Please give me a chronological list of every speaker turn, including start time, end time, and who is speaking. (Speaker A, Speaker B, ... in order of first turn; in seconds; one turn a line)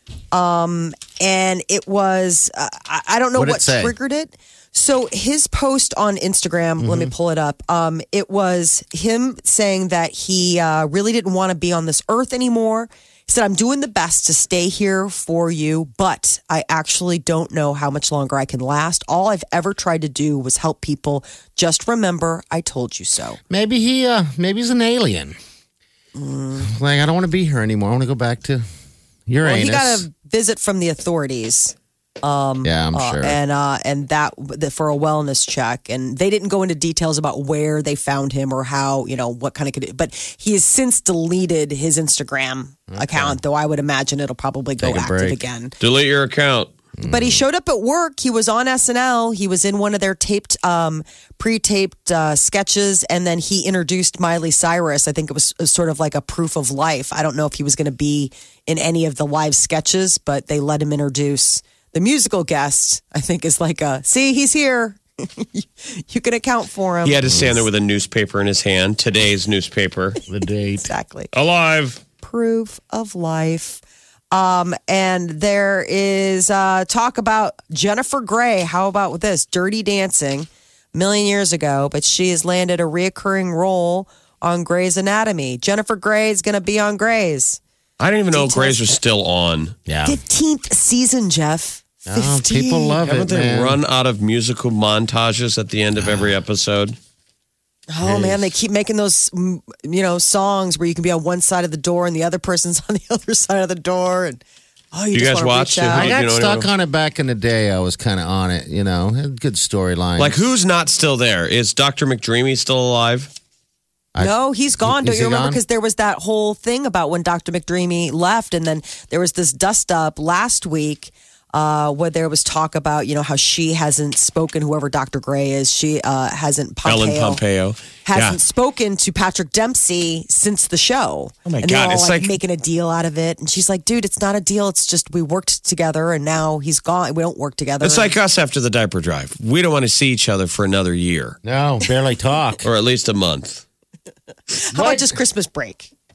Speaker A: 0.3-23.4
Speaker B: 3.3-3.9
Speaker B: 6.8-7.1
Speaker B: 23.5-25.4
Speaker A: 26.1-26.7
Speaker B: 26.6-28.6
Speaker B: 29.3-30.0
Speaker A: 29.4-45.7
Speaker B: 32.6-33.4
Speaker B: 42.9-43.4
Speaker B: 44.8-45.4
Speaker C: 45.8-46.7
Speaker B: 47.0-47.4
Speaker A: 47.0-67.5
Speaker C: 67.0-70.2
Speaker B: 70.3-70.9
Speaker A: 70.8-71.3
Speaker C: 71.3-72.0
Speaker A: 72.2-73.8
Speaker A: 74.3-87.6
Speaker C: 88.0-89.7
Speaker A: 88.3-89.0
Speaker B: 89.9-90.2
Speaker A: 90.0-93.0
Speaker B: 92.1-93.8
Speaker C: 93.0-97.0
Speaker A: 97.9-104.4
Speaker B: 98.0-98.4
Speaker A: 104.9-106.1
Speaker C: 105.1-106.7
Speaker B: 105.9-110.4
Speaker C: 110.2-113.3
Speaker B: 114.1-115.6
Speaker A: 114.2-127.4
Speaker C: 126.8-128.4
Speaker A: 128.0-138.1
Speaker C: 131.4-132.3
Speaker C: 137.8-141.4
Speaker B: 141.4-142.7
Speaker C: 142.6-143.6
Speaker A: 144.5-145.9
Speaker B: 144.7-145.2